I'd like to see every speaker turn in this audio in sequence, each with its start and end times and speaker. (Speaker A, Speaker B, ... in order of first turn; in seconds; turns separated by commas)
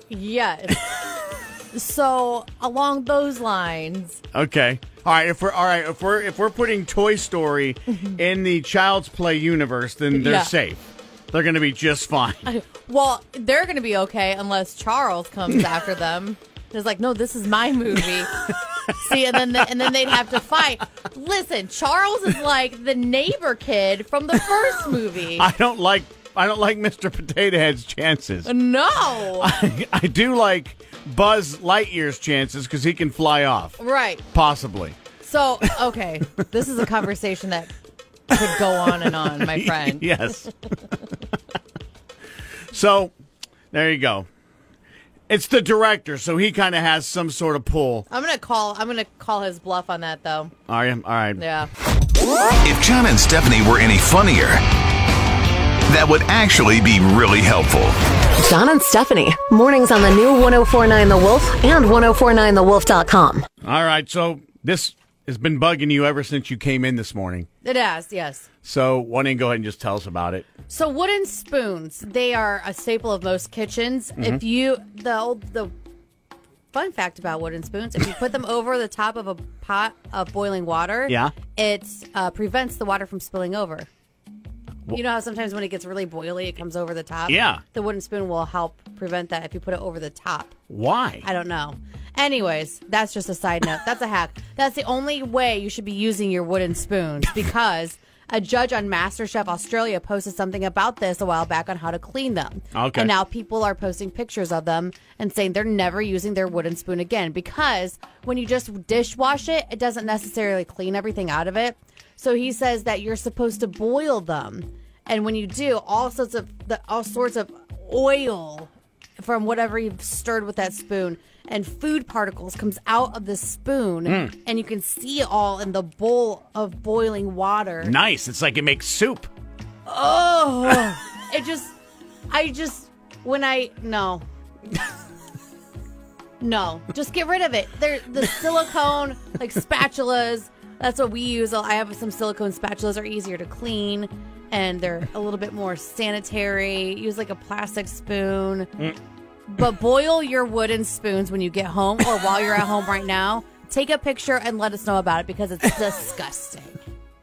Speaker A: 0.1-4.2, Speaker B: 4.3-12.5, Speaker A: 10.1-10.5, Speaker A: 12.4-25.5, Speaker B: 25.4-28.5, Speaker A: 28.4-29.6, Speaker B: 29.4-33.8, Speaker A: 33.8-34.2, Speaker B: 34.3-35.0, Speaker A: 35.2-37.7, Speaker A: 38.3-40.0, Speaker B: 39.2-40.5, Speaker B: 42.7-43.1, Speaker B: 43.7-44.3, Speaker B: 45.3-48.0, Speaker A: 48.1-50.5, Speaker B: 50.7-51.4, Speaker A: 51.4-51.7, Speaker C: 52.6-54.6, Speaker C: 55.9-58.0, Speaker D: 58.4-63.5, Speaker B: 63.6-67.5, Speaker A: 67.6-68.5, Speaker B: 68.6-70.5, Speaker A: 70.7-75.7, Speaker B: 74.2-74.4, Speaker A: 76.7-83.9, Speaker B: 81.1-81.3, Speaker A: 84.9-90.5, Speaker B: 87.3-87.6, Speaker B: 90.7-91.2, Speaker A: 91.2-127.9, Speaker B: 102.7-103.1, Speaker B: 124.0-124.3, Speaker B: 127.8-129.3, Speaker A: 129.9-131.7, Speaker A: 132.3-134.2, Speaker A: 136.4-148.7, Speaker A: 149.5-156.8